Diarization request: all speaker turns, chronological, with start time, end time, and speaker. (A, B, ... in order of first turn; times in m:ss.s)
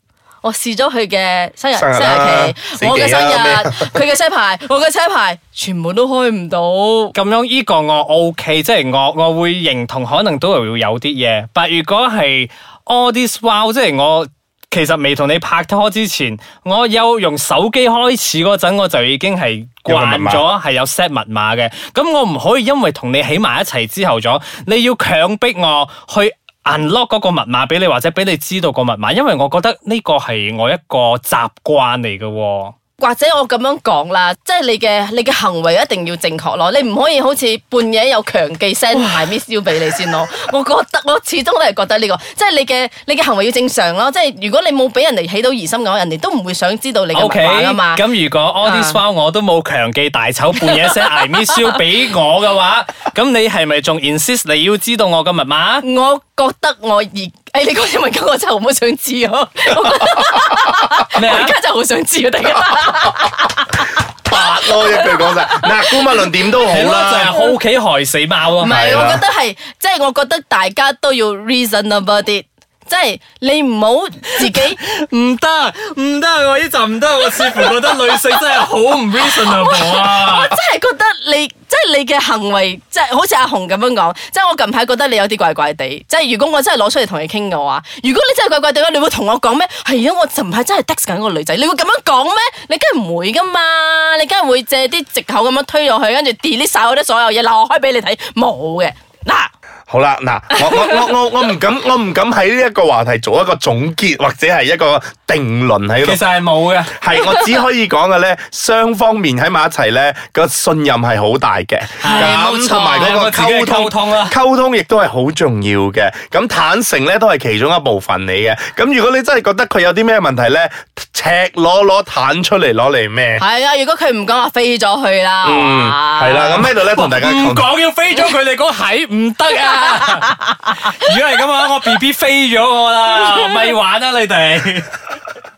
0:00.4-0:07.2 A
0:01.8-0:04.0 B
0:07.2-0:32.8 C
0:19.9-0:20.4 B
0:33.0-0:48.0 A
0:47.1-0:55.8 C
0:48.6-0:49.0 A
0:50.6-0:51.8 A
0:55.8-1:06.3 A
1:01.1-1:01.6 C
1:04.2-1:07.4 B
1:06.7-1:08.8 C
1:08.6-1:14.8 A
1:08.7-1:09.2 B
1:14.4-1:20.5 C
1:19.3-1:39.5 A
1:39.9-1:46.2 B
1:40.5-1:41.1 A
1:46.0-1:46.9 C
1:46.9-2:03.4 B
1:47.2-1:47.5 A
1:52.0-1:54.4 C
2:03.4-2:06.7 A
2:05.4-2:07.7 B
2:06.8-2:15.0 C
2:09.6-2:10.2 A